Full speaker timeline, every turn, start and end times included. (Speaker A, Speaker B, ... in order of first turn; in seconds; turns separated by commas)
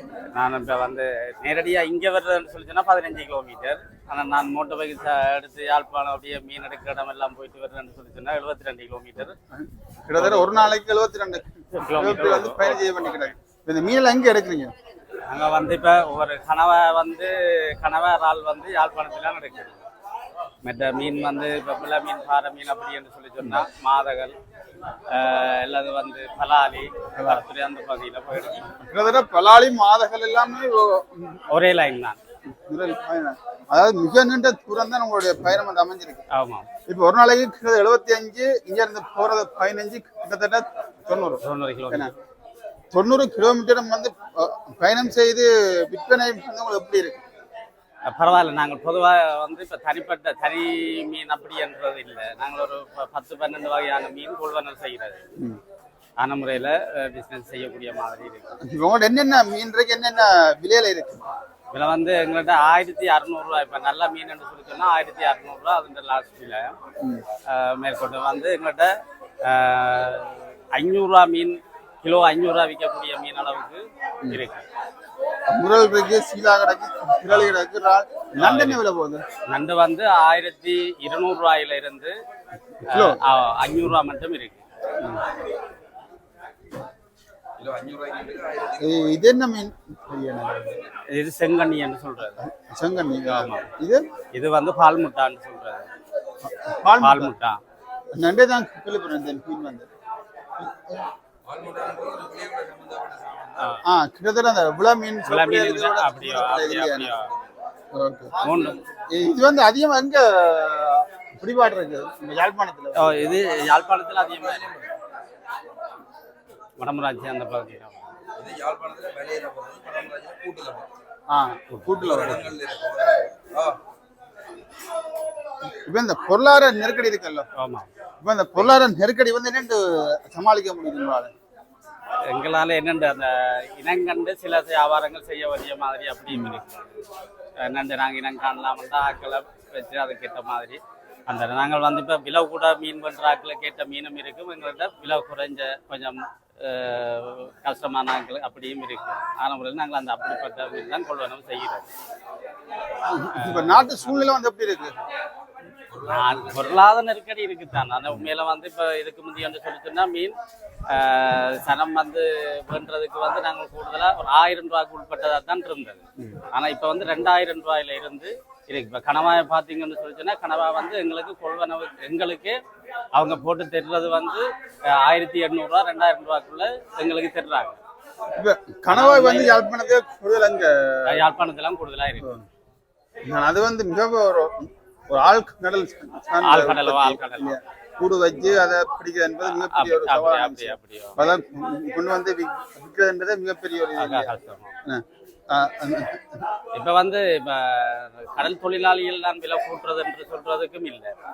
Speaker A: 0.3-9.3, Speaker B: 9.5-14.7, Speaker A: 10.2-10.7, Speaker A: 11.7-12.8, Speaker A: 15.3-19.8, Speaker A: 20.6-24.3, Speaker A: 25.1-28.7, Speaker B: 27.1-27.4, Speaker B: 28.9-31.4, Speaker A: 31.5-32.2, Speaker B: 32.7-36.2, Speaker A: 36.3-36.6, Speaker B: 36.9-42.1, Speaker A: 41.4-42.1, Speaker B: 42.9-47.2, Speaker A: 48.0-55.2, Speaker A: 56.2-58.5, Speaker B: 58.7-61.2, Speaker A: 61.7-66.7, Speaker A: 67.5-68.9, Speaker A: 69.4-74.6, Speaker B: 75.5-79.2, Speaker A: 77.3-77.5, Speaker A: 78.3-78.8, Speaker A: 79.5-82.1, Speaker A: 82.9-84.6, Speaker B: 82.9-83.2, Speaker C: 87.6-89.2, Speaker B: 88.8-90.8, Speaker A: 91.1-92.4, Speaker B: 92.4-94.0, Speaker A: 93.3-93.7, Speaker A: 94.3-95.9, Speaker B: 96.4-97.3, Speaker A: 97.0-97.6, Speaker B: 98.2-99.9, Speaker C: 101.5-103.7, Speaker B: 103.8-107.1, Speaker A: 105.2-107.3, Speaker C: 106.5-107.6, Speaker B: 107.9-108.3, Speaker C: 108.4-108.9, Speaker A: 108.4-108.8, Speaker B: 109.1-113.2, Speaker A: 112.9-114.7, Speaker C: 113.2-114.9, Speaker A: 116.8-118.1, Speaker C: 118.4-120.9, Speaker B: 121.3-122.5, Speaker C: 122.0-123.8, Speaker B: 125.8-127.5, Speaker A: 127.5-127.9, Speaker B: 128.2-131.3, Speaker A: 132.2-136.9, Speaker A: 137.6-151.9, Speaker B: 153.0-154.9, Speaker A: 153.4-154.3, Speaker C: 155.9-156.9, Speaker A: 156.1-160.3, Speaker A: 160.9-172.6, Speaker A: 173.1-177.8, Speaker B: 178.3-181.2, Speaker A: 178.9-179.6, Speaker A: 181.1-182.3, Speaker B: 183.2-194.3, Speaker A: 186.4-187.5, Speaker A: 189.4-191.2, Speaker A: 194.0-194.7, Speaker B: 194.8-196.4, Speaker A: 196.7-201.1